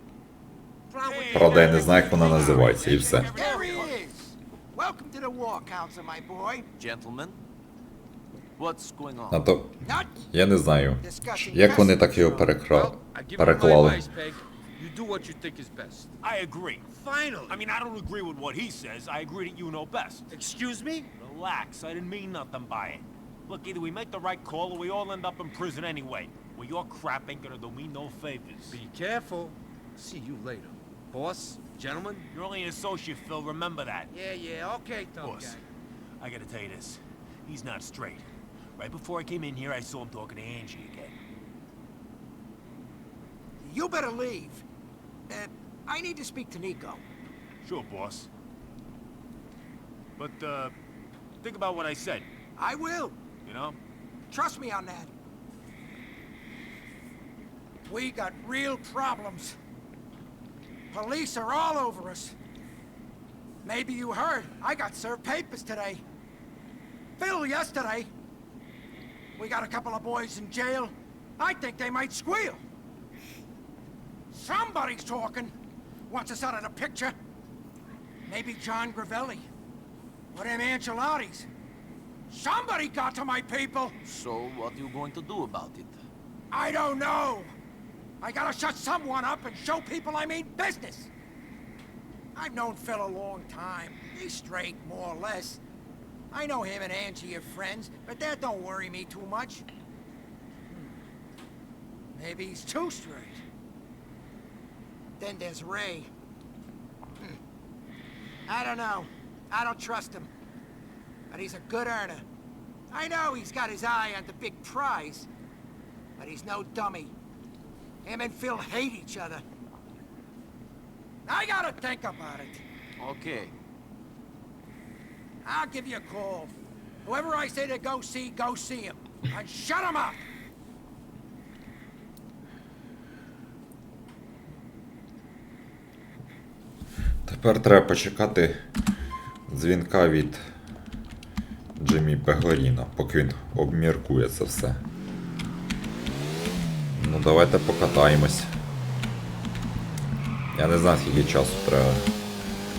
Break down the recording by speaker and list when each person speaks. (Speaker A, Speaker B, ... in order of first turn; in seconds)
Speaker A: 1.0-4.0, 16.2-16.9, 17.5-20.3, 21.2-28.8, 32.3-34.1, 35.2-35.6, 36.2-38.3, 38.8-41.2, 47.6-48.3, 50.2-50.7, 51.4-52.3, 53.5-53.8
Speaker B: 1.2-6.7, 9.8-10.2, 11.0-12.4, 43.6-44.6, 45.3-47.0, 52.6-53.2, 54.3-55.1, 57.9-59.6, 60.9-62.4, 63.6-66.0, 67.2-68.1, 69.4-72.6, 74.3-75.5, 76.1-77.2, 78.3-79.5, 80.3-81.5, 82.3-84.0, 86.5-87.5, 88.2-91.1, 92.3-95.6, 96.3-99.7, 102.2-103.4, 105.2-106.1, 108.5-110.3, 111.3-112.2, 112.9-115.3, 116.2-117.1, 118.0-119.4, 121.2-122.6, 125.4-130.3
Speaker C: 1.3-3.4, 9.3-14.1, 137.3-138.6, 139.5-140.4, 141.8-144.8, 147.0-148.5, 150.5-152.1
Speaker D: 6.8-7.4, 8.6-9.4, 84.0-86.0, 123.0-123.5
Speaker E: 12.6-16.1, 16.9-17.6, 20.3-21.1, 28.7-32.3, 34.1-35.6